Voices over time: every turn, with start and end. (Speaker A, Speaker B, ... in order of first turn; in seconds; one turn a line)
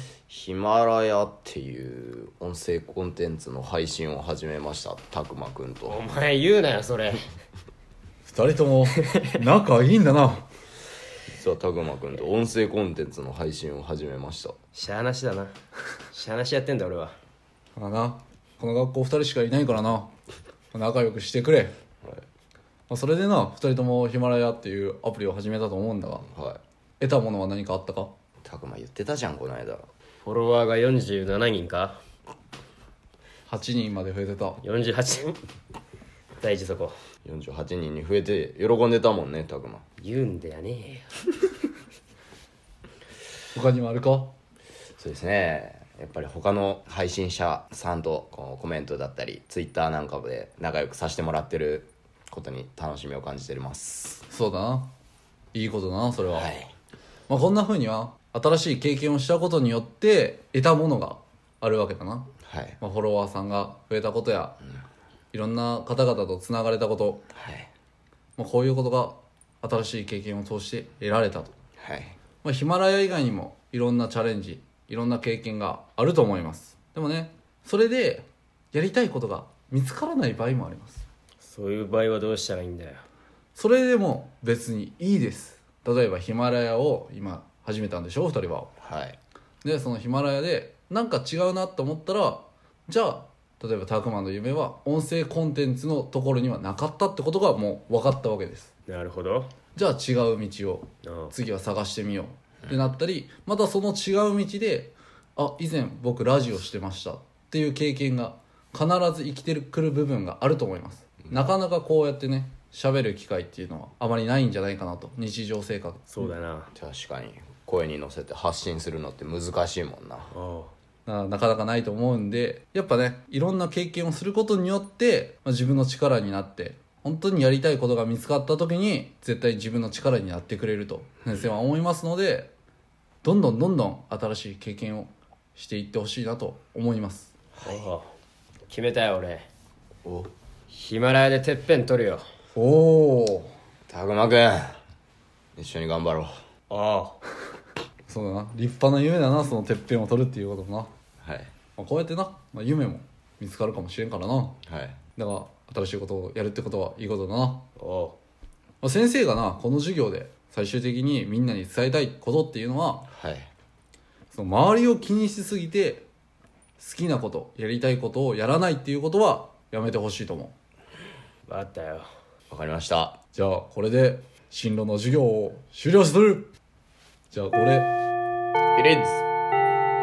Speaker A: 0.3-6.0
Speaker B: 5.9-7.2
Speaker C: 8.2-10.5
Speaker A: 11.3-14.6
Speaker B: 14.7-15.5
Speaker B: 16.1-17.1
Speaker C: 17.8-20.1
Speaker C: 20.7-21.7
Speaker C: 22.9-26.3
Speaker A: 26.3-26.6
Speaker C: 27.0-28.1
Speaker A: 28.4-29.9
Speaker B: 30.2-32.0
Speaker C: 33.5-34.6
Speaker B: 34.6-35.4
Speaker B: 36.4-36.9
Speaker A: 37.2-39.8
Speaker B: 40.0-41.1
Speaker C: 43.5-44.3
Speaker A: 45.0-54.2
Speaker C: 54.3-54.9
Speaker C: 55.5-56.5
Speaker A: 56.3-56.7
Speaker C: 57.3-64.6
Speaker A: 62.5-62.8
Speaker C: 65.3-67.2
Speaker A: 67.3-67.7
Speaker C: 68.4-71.5
Speaker A: 71.8-72.2
Speaker C: 72.4-81.0
Speaker B: 81.4-83.0
Speaker C: 83.5-88.7
Speaker A: 88.8-89.2
Speaker C: 89.6-98.7
Speaker B: 98.9-99.5
Speaker C: 99.8-116.2
Speaker B: 101.0-101.3
Speaker B: 116.1-116.7
Speaker A: 116.7-120.3
Speaker B: 120.3-120.7
Speaker C: 121.0-132.5
Speaker C: 133.2-137.3
Speaker B: 137.6-138.1
Speaker B: 138.7-139.4
Speaker A: 140.0-140.3
Speaker B: 140.7-142.2
Speaker C: 142.6-143.5
Speaker A: 143.9-144.8
Speaker A: 145.6-146.3
Speaker B: 146.7-147.2
Speaker C: 148.1-150.9
Speaker A: 151.2-151.5
Speaker C: 151.8-154.6
Speaker A: 154.7-155.0
Speaker C: 155.2-157.7
Speaker B: 157.8-158.2
Speaker C: 158.8-163.1
Speaker A: 163.1-163.5
Speaker C: 164.3-166.1
Speaker C: 166.8-170.5
Speaker B: 171.5-172.1
Speaker A: 172.5-173.2
Speaker C: 173.3-176.5
Speaker C: 177.3-177.9
Speaker A: 178.7-179.2